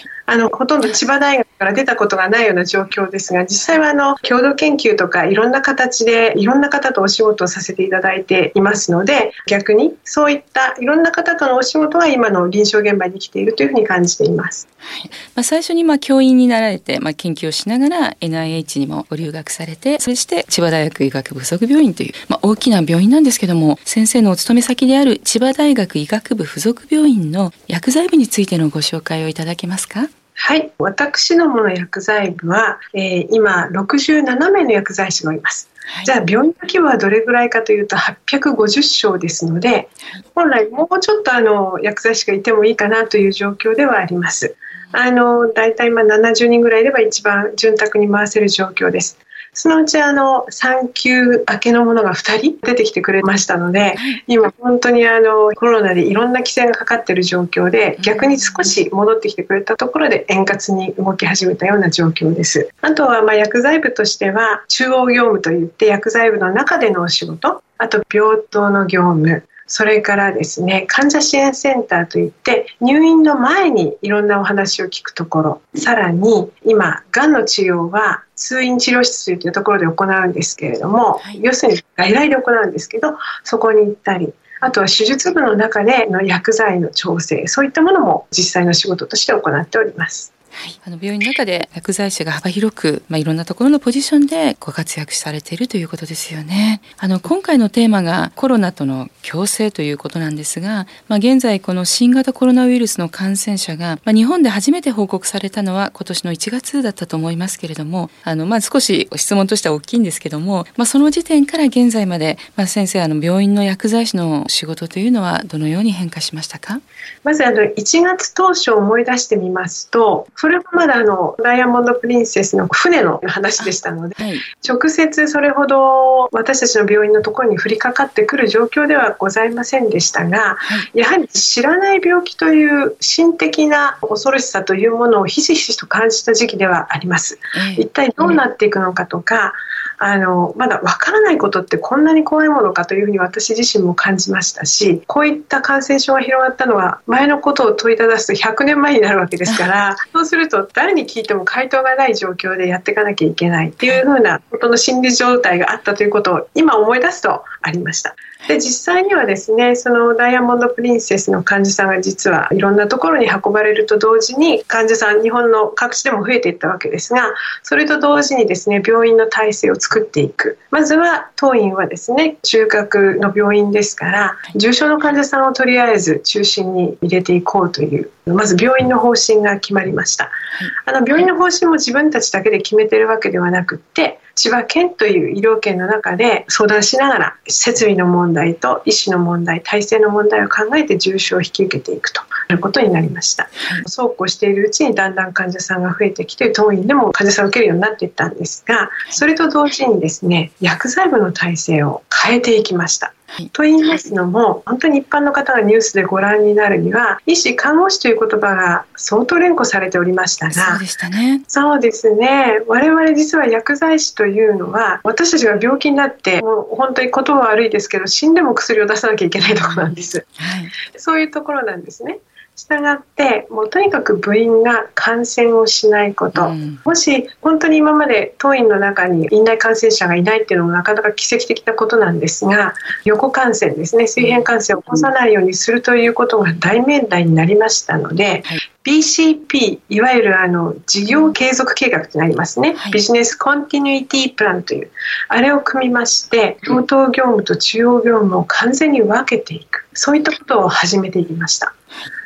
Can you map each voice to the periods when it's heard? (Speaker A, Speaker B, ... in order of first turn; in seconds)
Speaker A: 0.3-14.6, 30.4-90.3, 117.2-210.8, 211.5-220.3, 220.9-251.7
Speaker B: 14.8-30.1, 58.0-58.7, 90.6-116.8, 123.6-124.5, 137.5-138.4, 193.6-193.8, 210.5-211.4, 219.4-220.7, 226.3-226.8, 242.7-243.0